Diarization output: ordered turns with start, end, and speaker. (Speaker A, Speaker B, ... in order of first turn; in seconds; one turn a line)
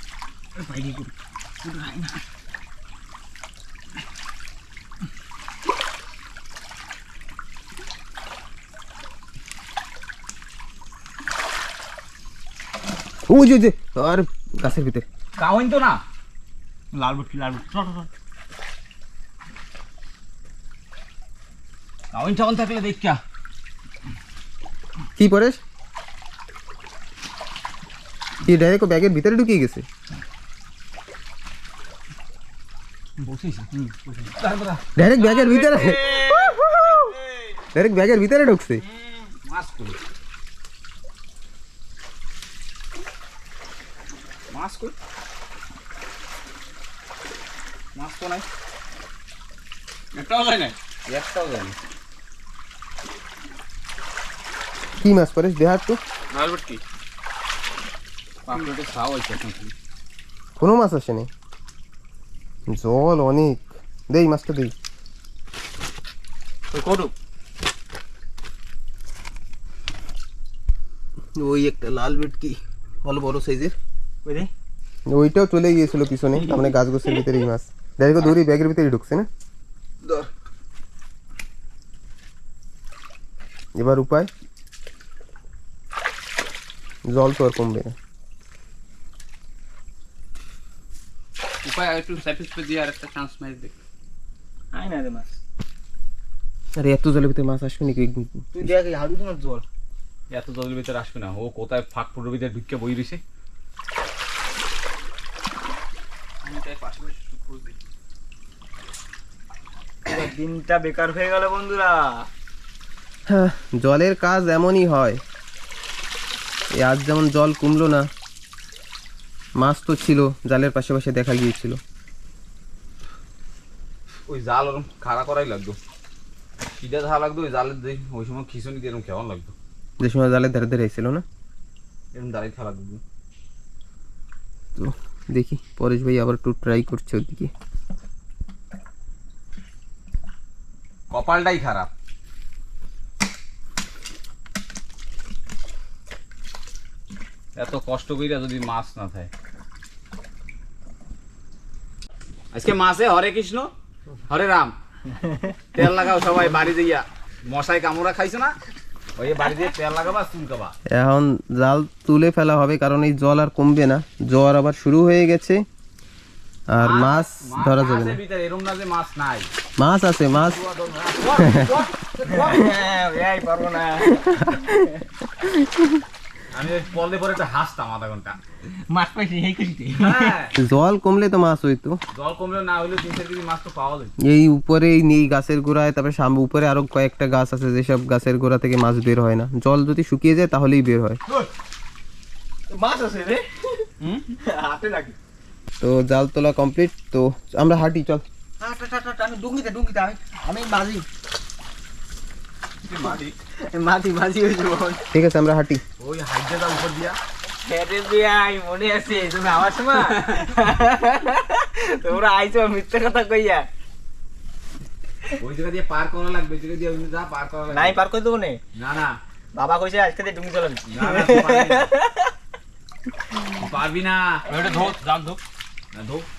Speaker A: 0.6-2.2
Speaker B: 13.3-15.1
Speaker C: 15.4-16.0
Speaker A: 16.9-18.1
Speaker C: 22.1-23.2
Speaker B: 25.2-25.6
Speaker B: 28.4-29.8
Speaker C: 33.2-33.7
Speaker A: 33.7-34.3
Speaker C: 34.4-34.8
Speaker B: 35.0-37.1
Speaker D: 35.3-36.5
Speaker B: 37.7-38.8
Speaker C: 39.0-40.0
Speaker C: 44.5-44.9
Speaker C: 48.0-48.5
Speaker D: 50.1-50.8
Speaker C: 51.1-51.8
Speaker B: 55.0-56.0
Speaker D: 56.3-56.8
Speaker C: 58.5-59.7
Speaker B: 60.6-61.3
Speaker B: 62.7-64.7
Speaker A: 66.7-67.1
Speaker B: 71.4-73.8
Speaker A: 74.2-74.5
Speaker B: 75.1-79.3
Speaker B: 83.8-84.3
Speaker B: 87.1-88.0
Speaker D: 91.6-93.8
Speaker A: 94.7-95.4
Speaker B: 96.8-98.7
Speaker A: 98.5-99.7
Speaker C: 100.3-103.2
Speaker D: 106.4-107.8
Speaker A: 110.1-112.3
Speaker B: 113.3-115.2
Speaker B: 116.8-118.1
Speaker B: 119.6-121.8
Speaker C: 124.3-125.8
Speaker C: 126.8-129.6
Speaker B: 130.0-131.2
Speaker C: 132.1-133.0
Speaker B: 134.8-137.5
Speaker C: 141.1-141.9
Speaker C: 147.6-149.3
Speaker C: 152.5-153.7
Speaker C: 154.3-154.7
Speaker A: 155.1-155.5
Speaker C: 155.7-158.6
Speaker C: 159.2-160.8
Speaker B: 160.9-165.7
Speaker B: 166.7-168.2
Speaker C: 166.8-169.5
Speaker B: 169.8-170.6
Speaker C: 170.3-172.7
Speaker B: 171.4-171.8
Speaker A: 172.2-174.5
Speaker B: 174.5-174.8
Speaker C: 176.5-178.4
Speaker A: 178.9-180.3
Speaker C: 180.0-180.6
Speaker B: 180.6-182.0
Speaker C: 182.1-184.1
Speaker B: 184.2-191.2
Speaker A: 192.7-193.9
Speaker A: 194.4-195.2
Speaker B: 195.8-198.2
Speaker A: 198.6-201.1
Speaker C: 202.8-203.3
Speaker A: 203.0-205.1
Speaker B: 205.1-205.8
Speaker C: 206.0-207.2
Speaker A: 207.6-213.7
Speaker C: 210.1-210.5
Speaker C: 215.4-218.0
Speaker A: 217.7-218.6
Speaker C: 218.8-219.2
Speaker A: 219.6-222.3
Speaker C: 220.9-221.9
Speaker C: 223.5-224.5
Speaker D: 224.5-225.4
Speaker C: 225.9-226.3